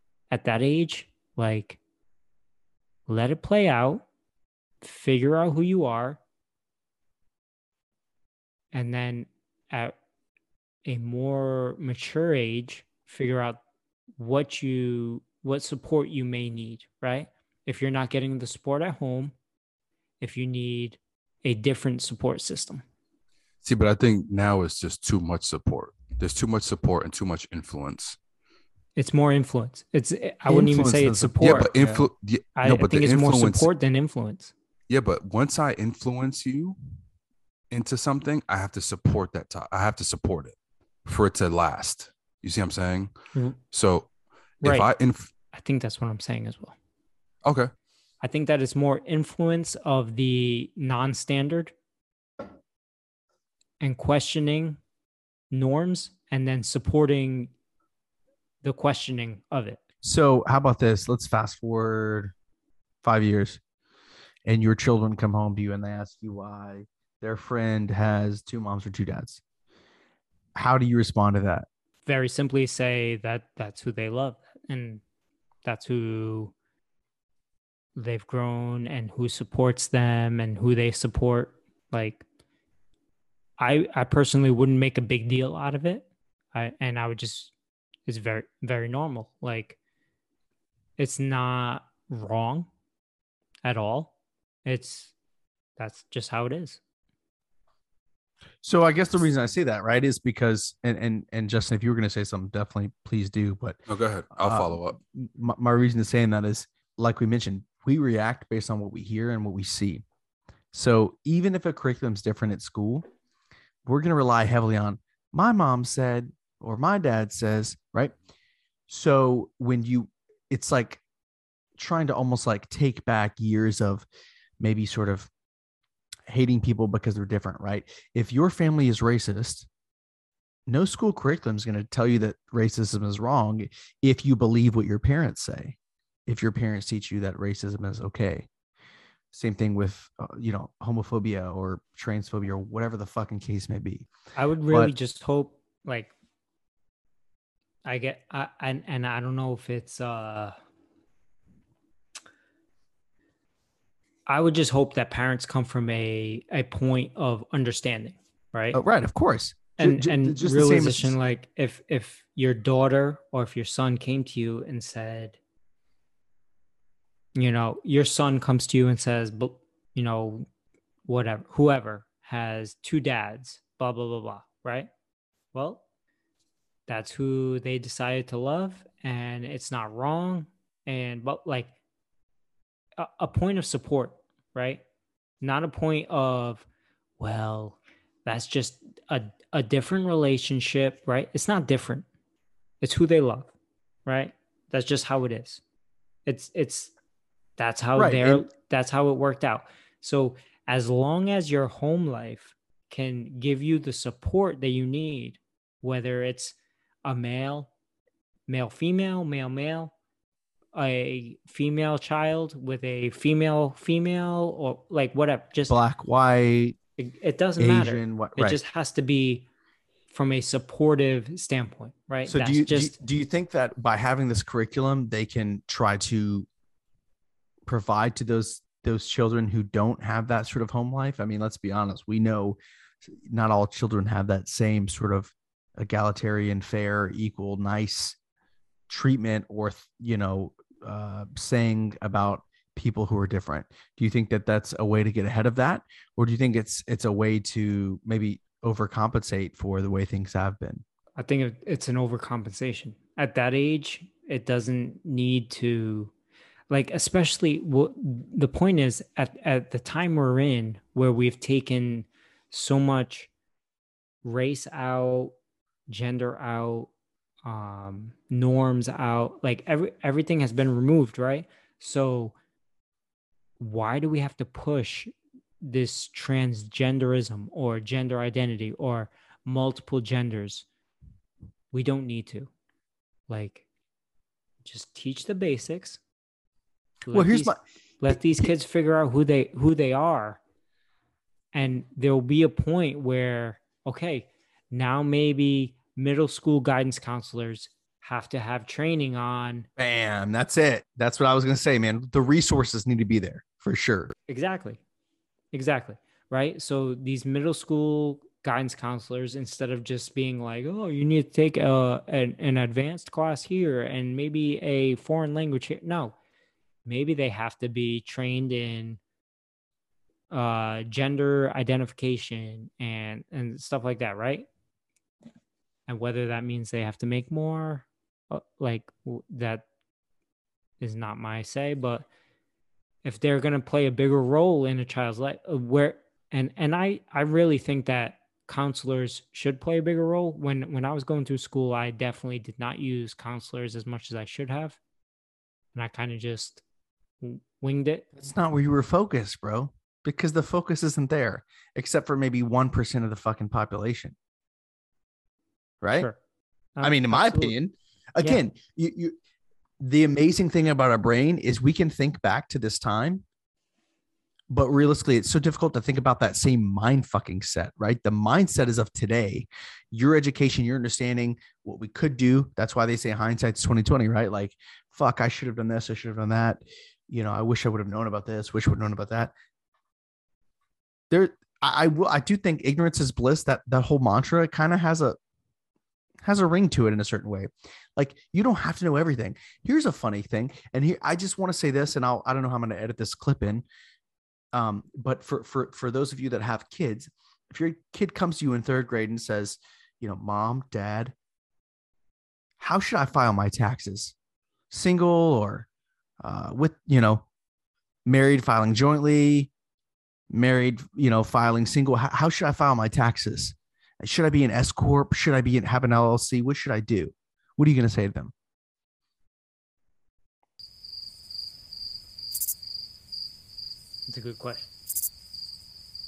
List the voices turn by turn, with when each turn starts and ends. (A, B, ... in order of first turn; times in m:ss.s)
0:00.3-0:01.8 A
0:03.1-0:04.0 A
0:04.8-0:06.2 A
0:08.7-0:09.9 A
0:10.8-0:13.6 A
0:14.2-0:19.3 A
0:20.2-0:22.8 A
0:23.6-0:28.2 B
0:29.0-0:31.7 A
0:30.4-0:32.0 C
0:31.4-0:33.7 B
0:32.6-0:34.5 A
0:34.9-0:36.8 B
0:37.7-0:43.1 B
0:43.7-0:44.1 B
0:44.6-0:45.3 B
0:44.6-0:44.9 A
0:45.5-0:46.8 A
0:47.4-0:47.7 B
0:48.2-0:51.7 A
0:53.8-0:54.8 A
0:55.5-0:57.5 A
0:58.6-0:59.8 A
1:00.0-1:02.3 C
1:03.0-1:03.6 C
1:04.4-1:09.4 C
1:10.5-1:11.7 C
1:12.0-1:15.0 A
1:15.6-1:16.5 A
1:18.0-1:22.2 A
1:23.6-1:27.5 A
1:28.1-1:29.8 A
1:31.0-1:32.7 A
1:33.6-1:34.1 A
1:34.6-1:35.1 A
1:35.8-1:36.8 A
1:38.6-1:43.8 C
1:43.9-1:45.0 B
1:44.4-1:50.0 C
1:50.7-1:53.0 C
1:53.8-1:58.1 C
1:58.9-2:01.0 C
2:01.8-2:04.1 C
2:04.6-2:05.3 C
2:06.3-2:09.7 C
2:10.7-2:15.8 C
2:16.3-2:18.5 C
2:19.3-2:24.1 C
2:24.3-2:26.1 A
2:27.8-2:30.5 A
2:34.3-2:38.8 A
2:38.7-2:41.1 C
2:39.8-2:45.4 A
2:47.4-2:50.5 A
2:51.1-2:54.9 A
2:55.5-2:55.8 A
2:56.9-3:01.7 A
3:03.0-3:04.8 A
3:05.4-3:06.6 A
3:07.2-3:12.0 A
3:12.8-3:13.5 A
3:14.0-3:15.6 A
3:16.2-3:16.9 A
3:17.6-3:27.7 A
3:18.0-3:18.4 C
3:28.5-3:29.9 A
3:30.7-3:35.8 A
3:35.7-3:36.8 C
3:37.0-3:39.4 A
3:37.6-3:38.6 C
3:40.1-3:42.9 A
3:42.3-3:46.5 C
3:47.6-3:58.2 C
3:58.9-4:10.8 C
4:11.2-4:16.1 A
4:16.7-4:23.3 A
4:24.2-4:25.3 A
4:25.9-4:26.9 A
4:27.4-4:32.3 A
4:33.6-4:40.7 A
4:41.7-4:42.5 A
4:43.3-4:43.6 A
4:44.6-4:46.0 A
4:47.0-4:50.4 A
4:47.1-4:48.5 C
4:51.5-4:59.7 A
4:59.8-5:04.1 C
5:04.3-5:04.8 A
5:05.5-5:16.2 A
5:16.8-5:19.0 A
5:20.3-5:24.5 A
5:25.9-5:29.6 A
5:30.8-5:32.1 A
5:33.0-5:44.8 A
5:45.7-5:46.6 A
5:47.2-5:48.0 A
5:48.1-5:54.1 C
5:55.8-5:56.1 C
5:56.8-5:57.5 A
5:56.8-5:59.2 C
5:59.8-6:03.2 C
6:04.5-6:19.3 C
6:21.1-6:25.2 C
6:26.2-6:33.6 C
6:34.5-6:41.1 C
6:42.6-6:44.1 C
6:44.7-6:45.7 C
6:46.2-6:47.2 C
6:48.0-6:49.5 C
6:50.3-6:58.3 C
7:04.1-7:04.7 A